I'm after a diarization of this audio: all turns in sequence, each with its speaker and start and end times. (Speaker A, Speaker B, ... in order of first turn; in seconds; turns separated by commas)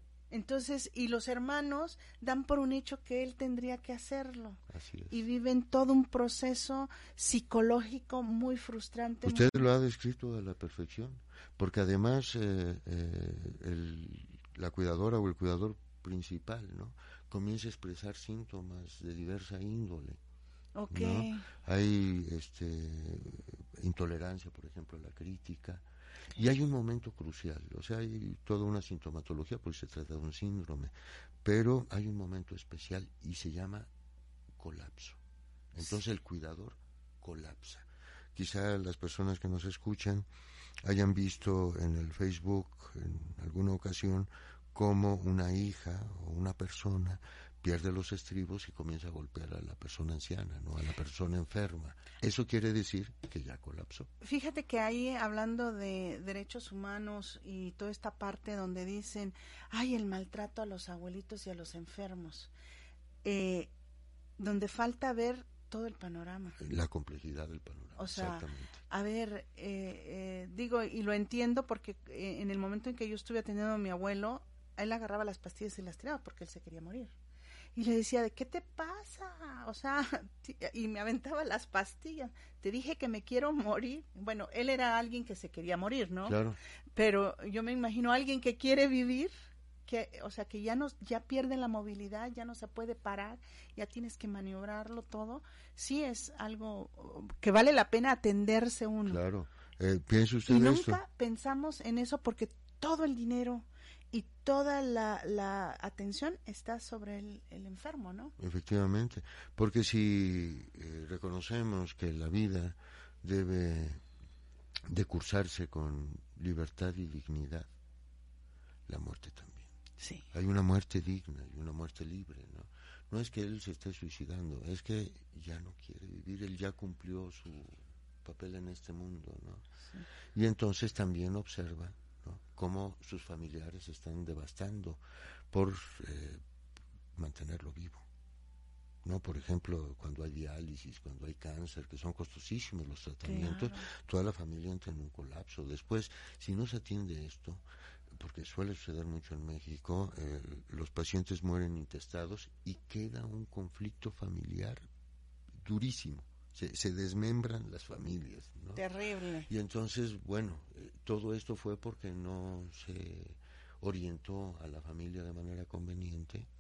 Speaker A: 0.3-9.7, Speaker B: 4.7-5.2, Speaker B: 9.2-20.2, Speaker A: 20.8-21.4, Speaker B: 20.9-33.9, Speaker B: 34.6-35.2, Speaker B: 35.7-40.3, Speaker B: 40.8-54.1, Speaker A: 54.2-62.5, Speaker A: 63.2-63.7, Speaker A: 64.4-66.6, Speaker B: 66.6-68.8, Speaker A: 68.0-77.1, Speaker A: 77.8-86.4, Speaker B: 86.2-86.6, Speaker A: 87.0-89.3, Speaker A: 89.9-99.2, Speaker B: 99.1-101.0, Speaker A: 100.5-108.3, Speaker B: 108.4-114.0, Speaker B: 114.9-117.7, Speaker B: 118.9-119.7, Speaker A: 120.0-120.2, Speaker B: 120.3-129.7, Speaker B: 130.3-136.4, Speaker B: 137.2-138.1, Speaker B: 139.0-154.8, Speaker A: 143.2-143.9, Speaker B: 155.6-158.8, Speaker A: 158.8-159.5, Speaker B: 159.5-166.5